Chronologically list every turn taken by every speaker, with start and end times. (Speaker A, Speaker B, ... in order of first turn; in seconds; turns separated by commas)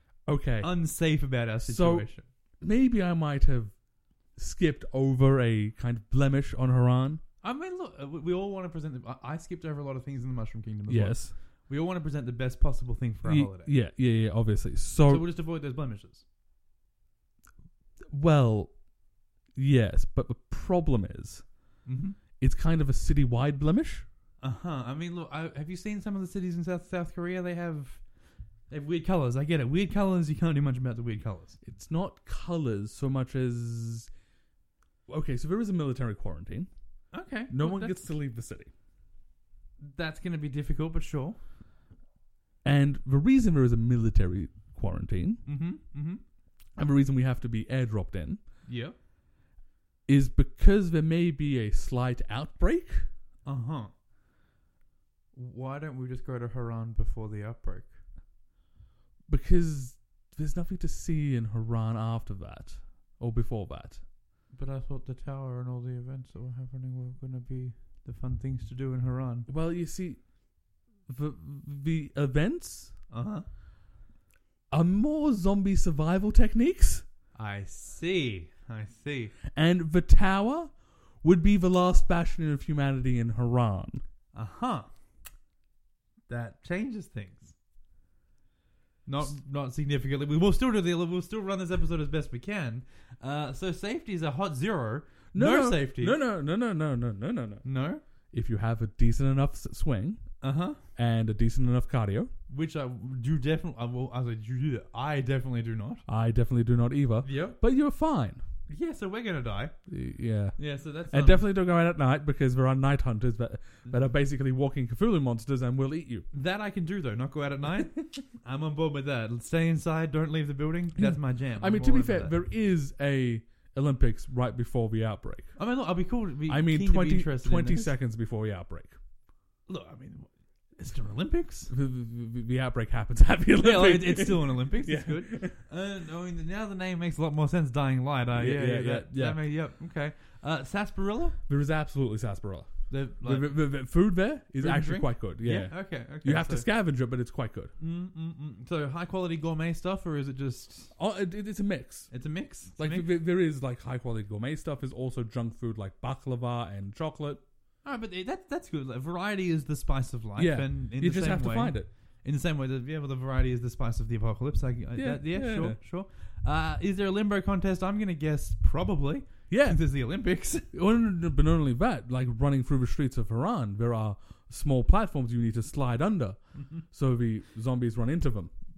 Speaker A: 0.2-3.8, Speaker B: 0.6-2.3, Speaker A: 4.3-7.2, Speaker B: 7.4-13.7, Speaker A: 10.9-11.3, Speaker A: 13.2-15.3, Speaker B: 15.1-16.2, Speaker A: 18.1-18.8, Speaker A: 19.5-21.5, Speaker B: 21.8-22.2, Speaker A: 22.4-24.1, Speaker B: 24.4-28.0, Speaker B: 28.7-31.6, Speaker A: 31.6-34.1, Speaker A: 35.1-36.7, Speaker B: 37.1-38.0, Speaker A: 37.5-38.7, Speaker B: 39.8-41.4, Speaker A: 42.6-45.4, Speaker B: 45.4-46.2, Speaker A: 46.8-48.4, Speaker B: 48.6-48.9, Speaker A: 50.0-53.1, Speaker B: 53.4-53.9, Speaker B: 55.3-58.0, Speaker A: 59.3-64.0, Speaker B: 64.5-69.5, Speaker A: 69.5-70.3, Speaker A: 71.0-73.0, Speaker B: 73.1-73.5, Speaker A: 74.7-77.0, Speaker B: 77.3-79.3, Speaker A: 79.5-84.0, Speaker B: 84.3-84.9, Speaker B: 86.3-87.5, Speaker B: 89.0-96.2, Speaker A: 95.3-97.7, Speaker B: 97.6-98.0, Speaker A: 98.3-102.3, Speaker B: 100.4-100.8, Speaker B: 102.5-106.0, Speaker A: 106.1-108.4, Speaker B: 107.2-107.6, Speaker B: 108.7-109.8, Speaker A: 109.9-116.3, Speaker B: 110.5-111.4, Speaker B: 116.3-122.3, Speaker A: 121.0-125.5, Speaker B: 125.5-128.0, Speaker A: 126.5-128.9, Speaker B: 129.7-131.7, Speaker A: 131.7-135.6, Speaker B: 133.6-141.4, Speaker A: 138.3-139.4, Speaker A: 141.5-147.7, Speaker B: 142.9-143.7, Speaker B: 144.6-146.7, Speaker B: 147.8-150.9, Speaker A: 150.9-152.1, Speaker B: 152.1-153.1, Speaker A: 152.7-157.4, Speaker B: 157.8-170.7, Speaker A: 160.3-161.9, Speaker A: 164.9-165.8, Speaker A: 169.5-169.8, Speaker A: 170.7-178.5